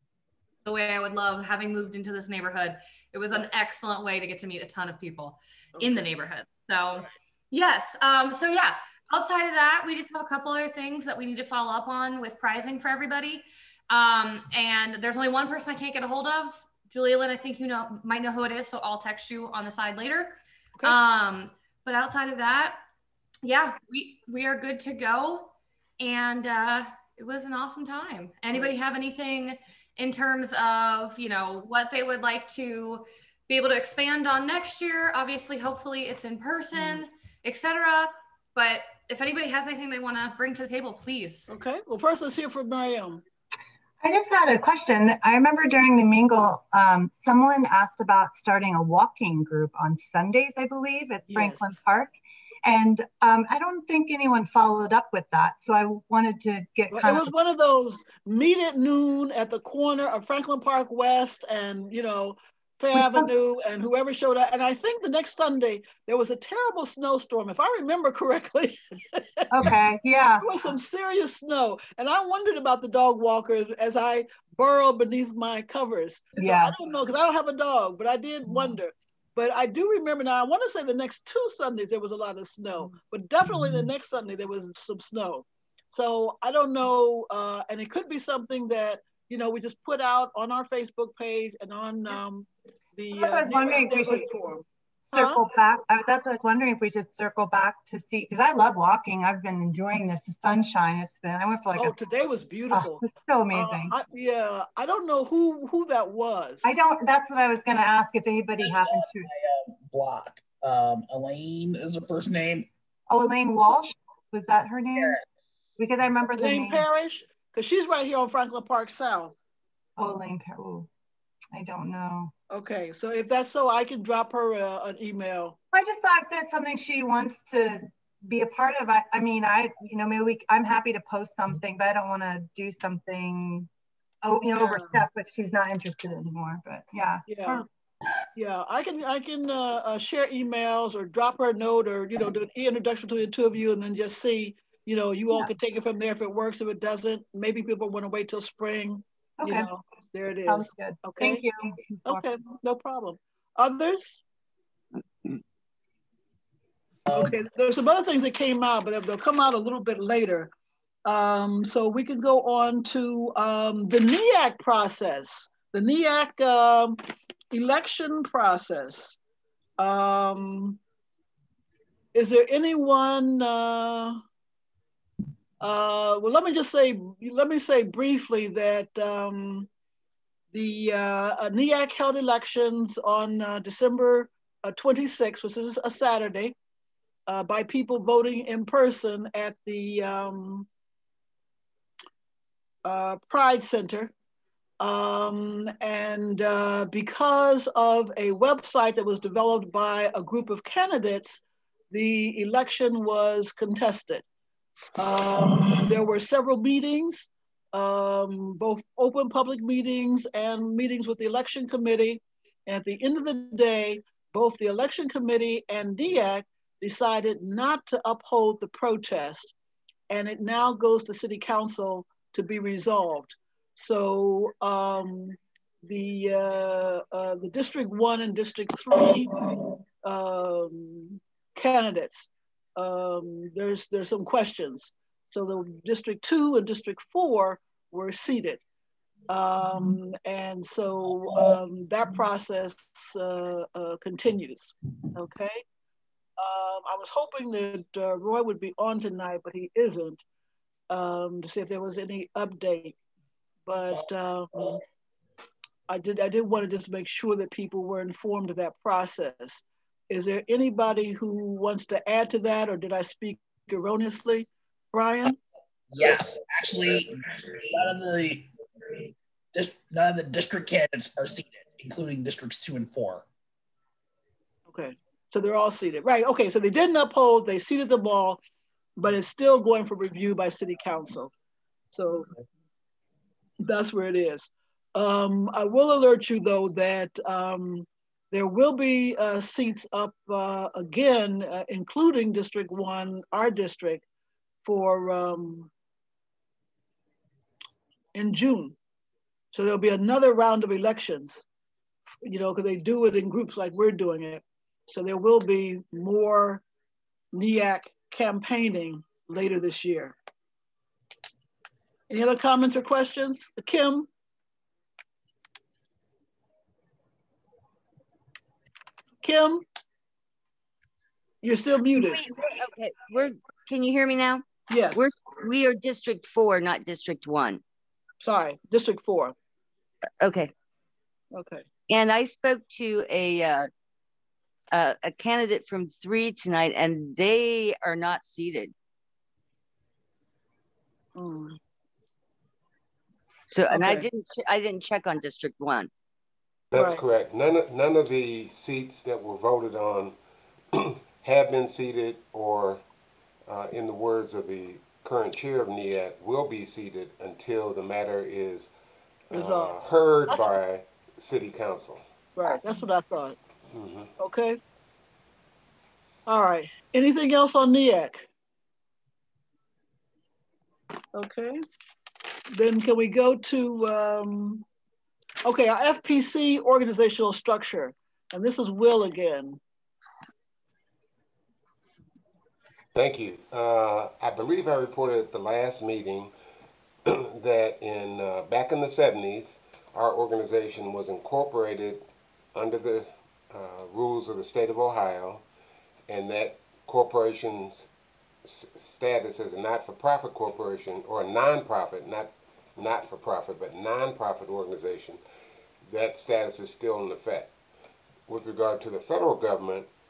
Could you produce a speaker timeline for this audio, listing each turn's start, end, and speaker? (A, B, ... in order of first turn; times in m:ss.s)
0:00.6-0:22.8 A
0:05.8-0:06.1 B
0:23.4-0:41.5 A
0:41.5-0:43.2 B
0:44.0-0:57.3 C
0:51.3-0:51.8 B
0:56.9-1:09.7 B
1:02.9-1:03.3 C
1:09.5-1:10.7 C
1:10.4-1:35.6 B
1:16.4-1:16.8 C
1:33.1-1:34.3 C
1:35.0-1:42.0 C
1:41.7-1:46.7 B
1:42.7-1:44.0 C
1:46.6-1:49.3 C
1:48.6-1:52.7 D
1:53.1-1:55.2 C
1:54.9-1:55.3 D
1:55.8-1:56.8 C
1:56.4-1:59.3 B
2:00.0-2:00.9 C
2:01.5-2:02.3 C
2:02.5-2:05.6 B
2:05.7-2:13.7 C
2:14.2-2:17.6 C
2:14.5-2:15.0 B
2:17.2-2:17.6 B
2:18.3-2:31.5 B
2:29.4-2:29.7 C
2:30.4-2:32.3 C
2:32.0-2:34.2 B
2:37.1-2:37.3 D
2:37.1-2:40.5 B
2:41.0-2:47.0 B
2:47.5-2:49.2 B
2:49.8-2:50.8 B
2:52.1-2:54.2 B
2:55.6-2:59.7 B
3:00.5-3:06.5 B
3:07.3-3:10.7 B
3:12.8-3:14.1 B
3:14.8-3:24.2 B
3:25.0-3:39.5 B
3:40.1-3:58.6 B
3:59.3-4:05.6 B
4:06.4-4:10.2 B
4:10.9-4:13.0 B
4:13.7-4:14.8 B
4:15.9-4:25.4 B
4:25.9-4:33.2 D
4:34.7-4:38.4 B
4:39.0-4:41.3 B
4:41.9-4:42.3 B
4:43.6-4:54.0 B
4:54.6-4:55.7 B
4:58.1-4:58.8 B
4:59.5-5:01.4 B
5:02.2-5:06.6 B
5:07.3-5:10.2 B
5:12.1-5:14.1 B
5:19.2-5:19.6 B
5:21.4-5:22.2 B
5:21.9-5:27.6 E
5:24.7-5:25.1 B
5:28.2-5:29.3 B
5:30.2-5:30.5 E
5:31.3-5:31.6 B
5:31.9-5:33.7 E
5:34.7-5:38.7 E
5:41.2-5:41.6 B
5:43.5-5:45.9 E
5:43.7-5:44.0 B
5:46.7-5:50.2 F
5:46.7-5:47.0 B
5:50.7-5:52.8 F
5:53.5-5:58.7 F
5:59.3-6:02.0 F
5:59.3-5:59.7 B
6:02.4-6:03.4 B
6:03.7-6:04.1 F
6:04.2-6:04.6 B
6:06.3-6:08.3 B
6:11.1-6:11.6 B
6:12.5-6:14.6 B
6:15.4-6:19.6 B
6:22.9-6:26.3 F
6:27.1-6:35.4 F
6:36.1-6:37.9 F
6:38.4-6:45.2 F
6:45.8-6:47.5 F
6:48.3-6:49.9 F